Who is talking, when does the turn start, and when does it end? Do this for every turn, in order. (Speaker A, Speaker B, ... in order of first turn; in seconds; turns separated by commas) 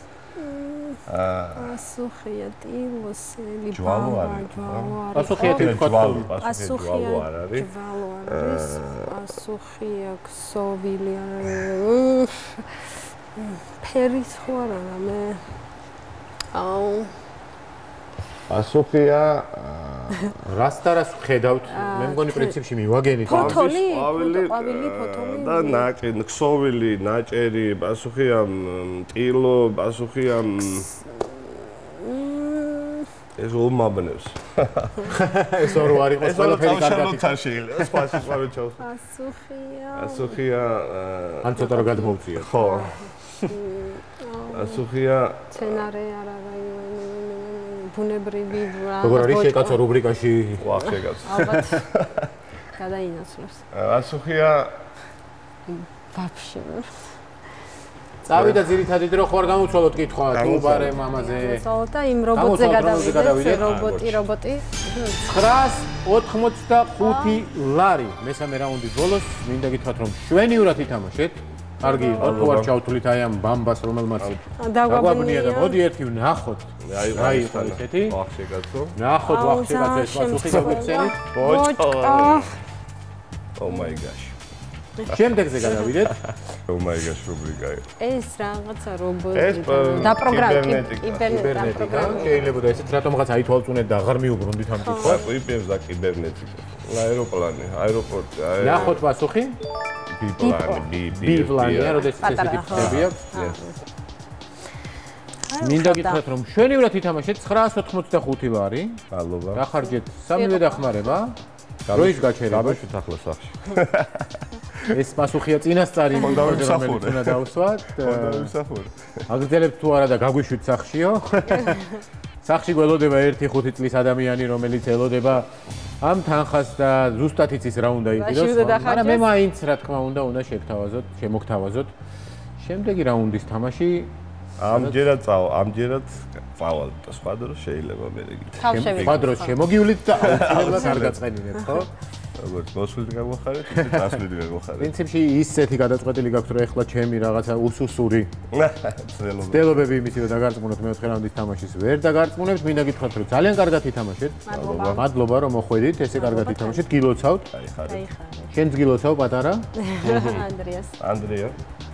Speaker A: 0.4-1.0, Speaker B: 1.1-1.8, Speaker A: 1.6-12.7, Speaker B: 3.7-7.7, Speaker C: 5.1-6.3, Speaker B: 8.3-9.1, Speaker A: 13.4-15.4, Speaker A: 16.5-17.1, Speaker B: 18.5-20.3, Speaker C: 20.4-23.7, Speaker A: 21.7-22.6, Speaker A: 23.3-25.9, Speaker B: 23.3-30.9, Speaker A: 31.1-33.1, Speaker B: 33.4-35.1, Speaker C: 35.1-37.4, Speaker B: 36.1-38.9, Speaker A: 38.8-40.4, Speaker B: 40.0-41.7, Speaker C: 41.4-42.6, Speaker A: 41.6-44.8, Speaker B: 42.3-43.5, Speaker B: 44.5-45.9, Speaker A: 45.5-49.8, Speaker C: 49.0-50.8, Speaker B: 50.6-52.3, Speaker A: 50.8-51.9, Speaker C: 51.4-51.8, Speaker A: 52.7-53.6, Speaker B: 53.7-54.7, Speaker A: 55.7-57.1, Speaker C: 58.3-61.7, Speaker B: 58.3-58.6, Speaker B: 60.3-61.0, Speaker A: 61.0-65.2, Speaker C: 62.3-64.2, Speaker C: 65.2-78.2, Speaker A: 67.0-67.4, Speaker A: 71.8-72.5, Speaker B: 72.2-72.7, Speaker A: 74.6-75.8, Speaker B: 76.9-79.0, Speaker C: 79.0-81.2, Speaker A: 79.2-82.5, Speaker B: 80.4-82.5, Speaker B: 83.6-84.3, Speaker A: 83.7-84.0, Speaker C: 85.1-86.2, Speaker B: 86.1-87.9, Speaker A: 88.0-92.5, Speaker B: 89.3-92.5, Speaker C: 91.2-95.3, Speaker A: 94.8-95.2, Speaker B: 95.0-99.0, Speaker C: 98.6-99.6, Speaker B: 100.1-102.0, Speaker A: 100.4-100.9, Speaker C: 101.1-103.2, Speaker A: 102.0-103.8, Speaker B: 102.7-103.6, Speaker A: 105.5-106.2, Speaker C: 105.6-111.4, Speaker B: 109.1-109.6, Speaker A: 110.3-111.2, Speaker B: 111.9-114.9, Speaker C: 111.9-112.8, Speaker C: 114.9-118.5, Speaker B: 116.2-117.4, Speaker B: 118.0-118.9, Speaker C: 119.3-121.8, Speaker A: 121.5-122.0, Speaker C: 122.4-125.5, Speaker C: 126.0-131.9, Speaker A: 128.1-129.3, Speaker C: 132.6-134.1, Speaker B: 134.6-139.3, Speaker C: 134.6-135.0, Speaker A: 138.6-139.6, Speaker C: 138.7-141.9, Speaker A: 140.2-141.0, Speaker B: 140.2-141.2, Speaker A: 141.6-141.9, Speaker B: 142.4-144.9, Speaker C: 143.8-144.1, Speaker C: 144.8-148.3, Speaker B: 148.5-149.7, Speaker C: 149.5-157.5, Speaker A: 154.5-155.1, Speaker B: 154.5-155.0, Speaker A: 156.1-156.8, Speaker B: 157.5-158.1, Speaker A: 157.9-158.5, Speaker C: 158.5-159.7, Speaker A: 159.8-160.9, Speaker B: 160.0-160.5, Speaker B: 161.0-161.6